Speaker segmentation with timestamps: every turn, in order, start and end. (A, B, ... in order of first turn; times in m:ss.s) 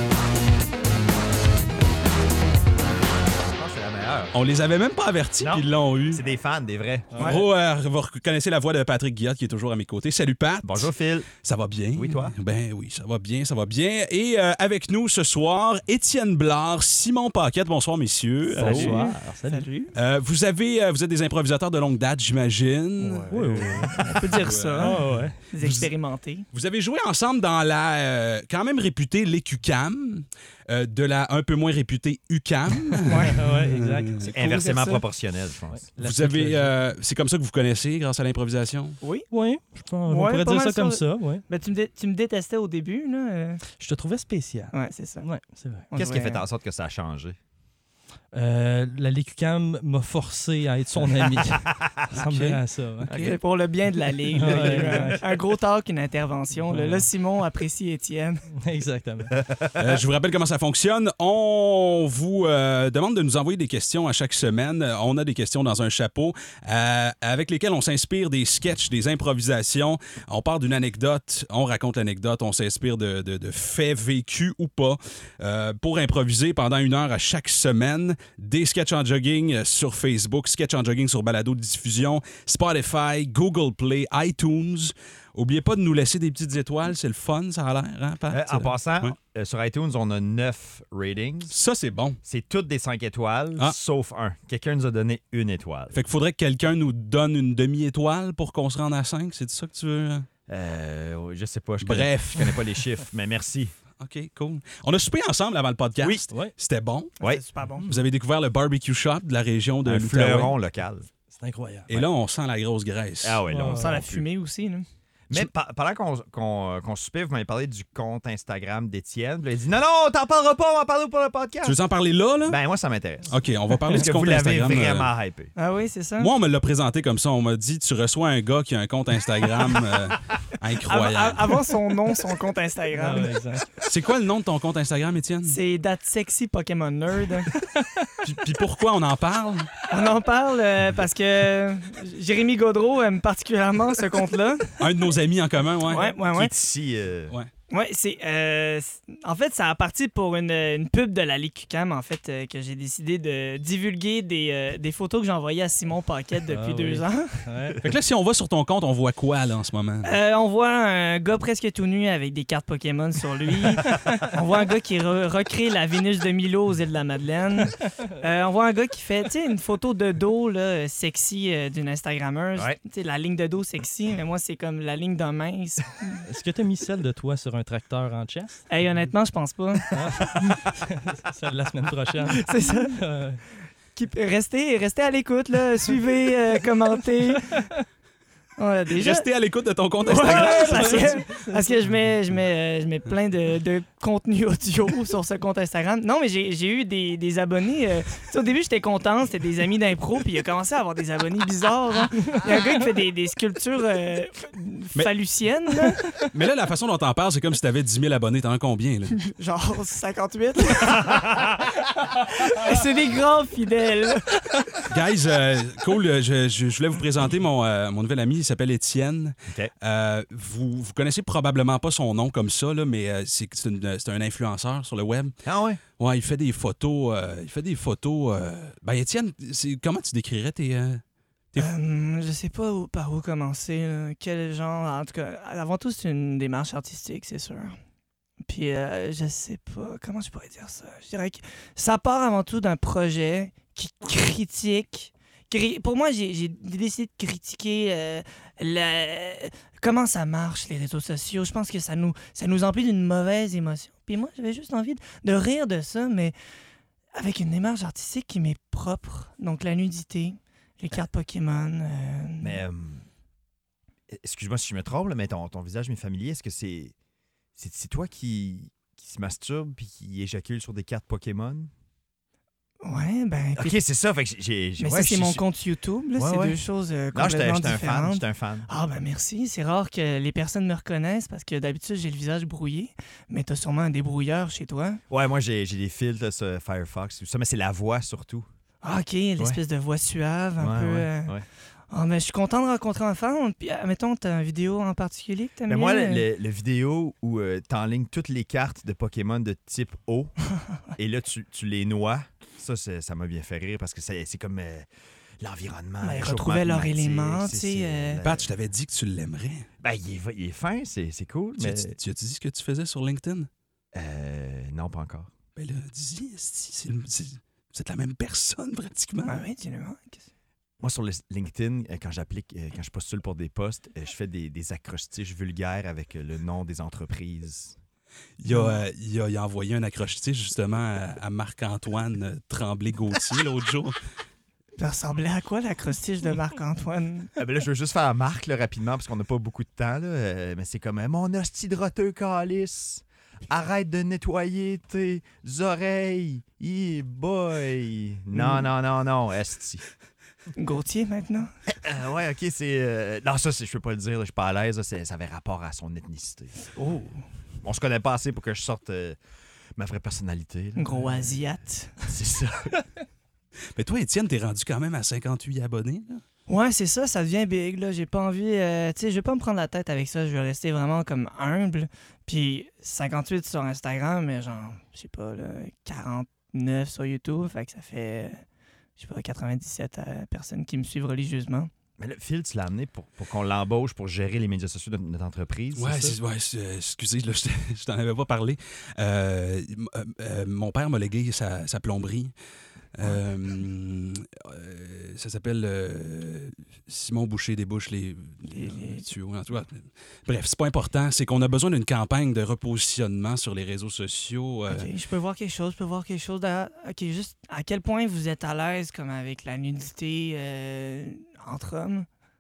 0:03.4-0:04.4 A
0:04.3-0:06.2 B
0:05.4-0:07.2 A
0:07.1-0:07.4 C
0:07.2-0:19.1 B
0:10.6-0:11.3 A
0:11.9-0:12.4 A
0:18.5-0:20.0 D
0:18.6-0:19.7 C
0:20.0-0:25.9 B
0:23.0-0:25.4 C
0:23.9-0:26.4 D
0:26.5-0:34.3 B
0:33.1-0:33.4 D
0:33.1-0:34.3 C
0:34.2-0:35.0 D
0:34.3-0:35.8 A
0:35.7-0:36.8 C
0:36.0-0:39.0 B
0:39.0-0:39.3 D
0:39.3-0:41.4 C
0:40.1-0:43.6 D
0:43.8-0:45.9 C
0:44.7-0:45.3 D
0:45.9-0:46.4 D
0:46.0-0:47.4 A
0:48.3-0:53.1 C
0:51.4-0:52.0 A
0:52.1-0:53.4 B
0:53.1-0:58.4 D
0:54.3-0:55.2 C
0:56.6-0:57.1 C
0:58.6-0:59.3 C
0:59.3-1:00.0 A
0:59.8-1:29.1 B
1:28.3-1:31.6 A
1:31.5-1:32.2 B
1:32.2-1:36.0 A
1:35.9-1:40.3 B
1:40.5-1:43.7 A
1:41.8-1:42.8 B
1:44.0-1:47.1 B
1:47.2-1:47.9 D
1:47.8-1:50.5 B
1:49.8-1:51.1 A
1:51.3-1:51.9 C
1:51.9-1:53.4 B
1:53.2-1:54.2 A
1:53.5-1:53.9 C
1:53.6-1:54.9 D
1:55.3-2:01.8 A
2:01.6-2:02.6 B
2:02.5-2:05.5 A
2:03.3-2:05.1 B
2:05.6-2:06.3 D
2:06.2-2:11.7 B
2:10.8-2:13.3 D
2:12.9-2:13.7 C
2:13.8-2:15.6 B
2:15.5-2:17.5 D
2:17.8-2:18.1 C
2:18.2-2:19.8 B
2:19.9-2:24.8 D
2:24.8-2:26.1 B
2:25.9-2:26.5 D
2:26.2-2:27.3 A
2:27.7-2:37.7 D
2:36.5-2:37.8 C
2:37.8-2:40.1 B
2:40.0-2:56.2 D
2:56.2-2:58.6 C
2:58.7-3:00.6 D
2:59.9-3:03.4 C
3:02.3-3:03.0 D
3:04.0-3:07.7 D
3:07.5-3:07.8 C
3:08.6-3:09.3 D
3:08.9-3:11.2 B
3:10.0-3:26.1 D
3:10.2-3:11.8 C
3:26.2-3:29.2 B
3:29.2-3:34.3 D
3:30.8-3:31.6 A
3:34.9-3:45.4 B
3:39.5-3:39.7 A
3:45.4-3:45.8 A
3:46.0-3:51.0 B
3:51.6-3:57.8 D
3:58.5-4:16.4 D
4:17.2-4:22.6 D
4:22.4-4:23.1 A
4:24.1-4:26.9 A
4:27.6-4:31.7 A
4:32.8-4:33.8 D
4:33.6-4:35.4 A
4:34.8-4:45.0 D
4:36.2-4:36.6 A
4:37.1-4:38.7 A
4:45.1-4:48.5 A
4:48.8-4:51.4 D
4:50.6-4:51.5 A
4:51.9-4:56.3 D
4:55.7-5:00.3 A
5:01.0-5:04.9 A
5:05.4-5:08.5 A
5:06.0-5:08.2 D
5:08.2-5:09.7 B
5:09.8-5:11.9 A
5:11.6-5:13.5 B
5:13.9-5:15.3 A
5:15.6-5:19.4 B
5:19.3-5:20.3 D
5:20.8-5:27.8 A
5:28.4-5:34.0 B
5:28.5-5:28.8 D
5:34.8-5:37.3 D
5:37.4-5:49.8 A
5:48.3-5:48.7 D
5:50.6-5:51.5 D
5:51.7-5:56.6 A
5:56.8-5:57.2 D
5:57.6-5:59.2 A
5:59.8-6:01.5 A
6:00.8-6:02.0 D
6:02.0-6:02.8 A
6:03.8-6:06.2 B
6:06.5-6:18.4 D
6:19.0-6:21.7 D
6:22.0-6:26.2 A
6:25.8-6:32.3 B
6:33.0-6:44.9 B
6:38.5-6:39.0 D
6:44.7-6:52.1 D